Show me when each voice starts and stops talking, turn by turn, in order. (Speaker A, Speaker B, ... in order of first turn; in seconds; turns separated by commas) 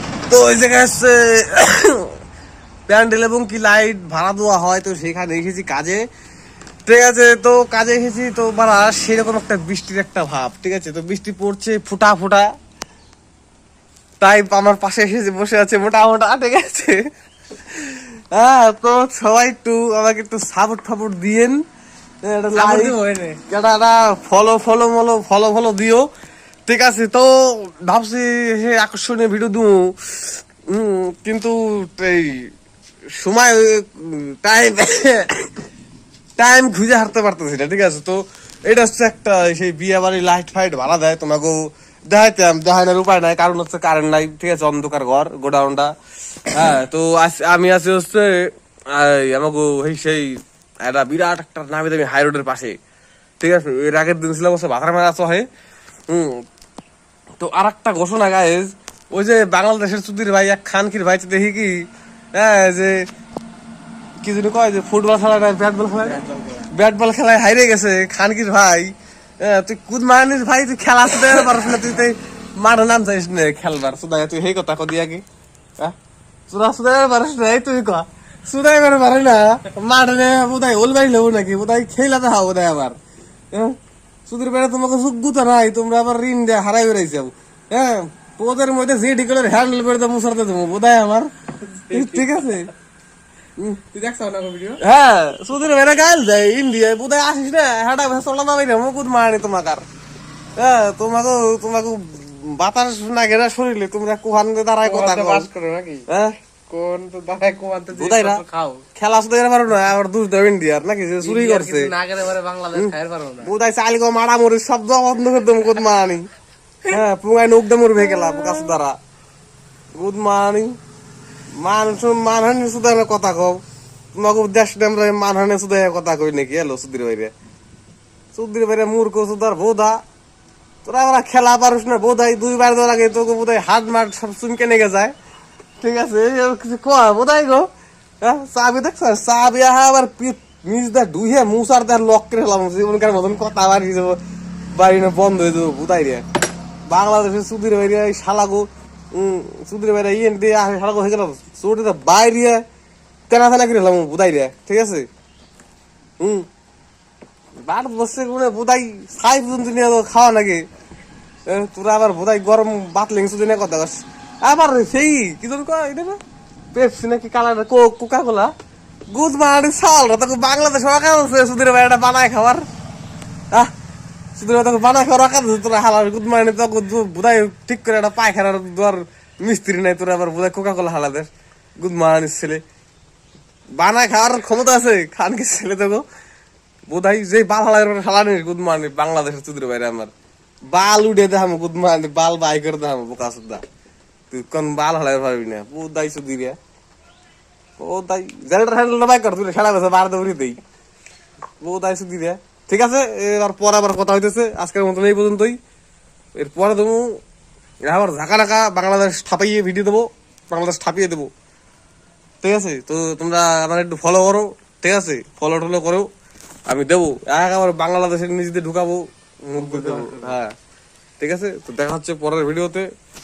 Speaker A: 0.3-2.1, Speaker A: 2.9-6.0, Speaker A: 6.8-12.5, Speaker A: 14.2-17.0, Speaker A: 17.7-21.6, Speaker A: 22.2-22.9, Speaker B: 22.5-23.4, Speaker A: 23.5-26.1, Speaker A: 26.7-32.5, Speaker A: 33.2-35.3, Speaker A: 36.4-45.9, Speaker A: 46.5-52.8, Speaker A: 53.4-55.5, Speaker A: 56.1-56.4, Speaker A: 57.4-63.0, Speaker A: 64.2-75.2, Speaker B: 66.1-66.7, Speaker A: 76.5-83.0, Speaker A: 84.3-91.3, Speaker B: 91.6-92.6, Speaker A: 91.9-92.7, Speaker B: 93.9-94.8, Speaker A: 94.8-99.8, Speaker A: 100.6-105.5, Speaker B: 104.8-106.0, Speaker A: 106.1-106.3, Speaker B: 106.7-108.8, Speaker A: 108.0-108.4, Speaker A: 109.0-111.9, Speaker B: 111.2-113.5, Speaker A: 112.7-116.2, Speaker A: 116.9-119.0, Speaker B: 118.2-118.5, Speaker A: 120.0-120.8, Speaker A: 121.6-123.6, Speaker A: 124.1-127.3, Speaker A: 128.3-130.0, Speaker A: 130.8-135.1, Speaker A: 135.8-137.7, Speaker A: 138.2-144.2, Speaker A: 144.7-146.2, Speaker A: 146.9-152.6, Speaker A: 153.3-155.1, Speaker A: 156.2-156.4, Speaker A: 157.6-160.6, Speaker A: 161.4-166.2, Speaker A: 166.7-168.5, Speaker A: 169.1-172.6, Speaker A: 174.3-181.3, Speaker A: 181.8-182.6, Speaker A: 183.7-186.0, Speaker A: 186.9-190.1, Speaker A: 190.7-193.6, Speaker A: 194.3-196.6, Speaker A: 197.8-200.6, Speaker A: 201.6-205.6, Speaker A: 206.3-207.2, Speaker A: 207.8-211.3, Speaker A: 212.4-216.1, Speaker A: 216.7-220.5, Speaker B: 219.6-220.3, Speaker A: 221.2-222.9